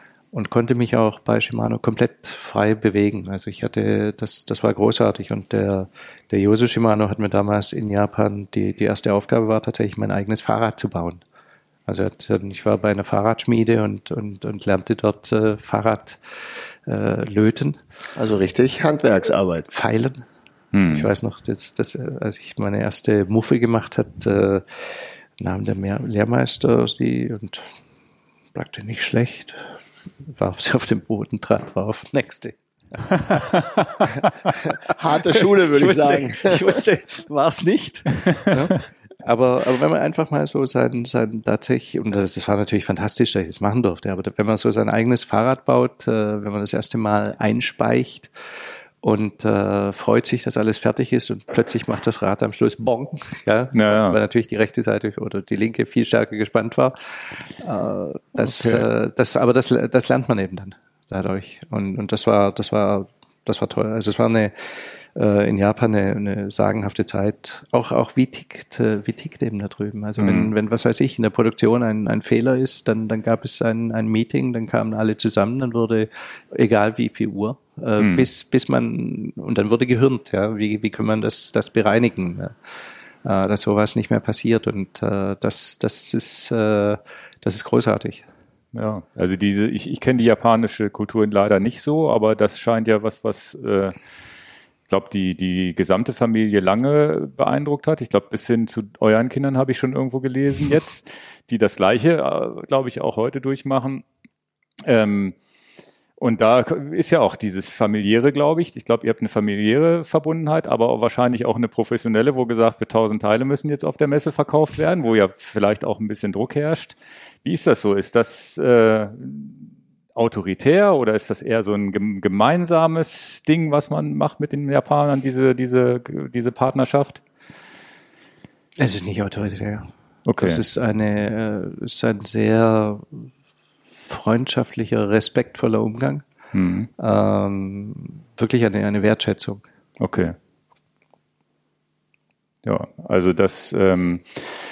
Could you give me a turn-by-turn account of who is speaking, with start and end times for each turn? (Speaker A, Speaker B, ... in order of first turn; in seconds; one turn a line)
Speaker A: 0.3-11.2
Speaker A: 11.9-17.8
Speaker B: 18.1-19.7
Speaker A: 19.7-20.2
Speaker C: 20.7-21.1
Speaker A: 20.9-27.8
Speaker A: 28.5-29.7
Speaker A: 30.2-32.5
Speaker C: 33.1-34.2
Speaker B: 34.5-36.8
Speaker A: 35.3-48.3
Speaker C: 38.3-38.8
Speaker A: 49.0-88.2
Speaker C: 53.7-54.2
Speaker C: 58.4-58.9
Speaker C: 70.2-70.5
Speaker C: 78.0-78.3
Speaker C: 88.7-94.0
Speaker C: 94.9-104.0
Speaker C: 104.8-105.3
Speaker C: 106.2-127.2
Speaker A: 128.8-133.3
Speaker C: 130.2-130.6
Speaker A: 133.9-136.2
Speaker C: 136.5-136.9
Speaker A: 137.0-139.6
Speaker C: 140.0-140.3
Speaker C: 142.6-144.5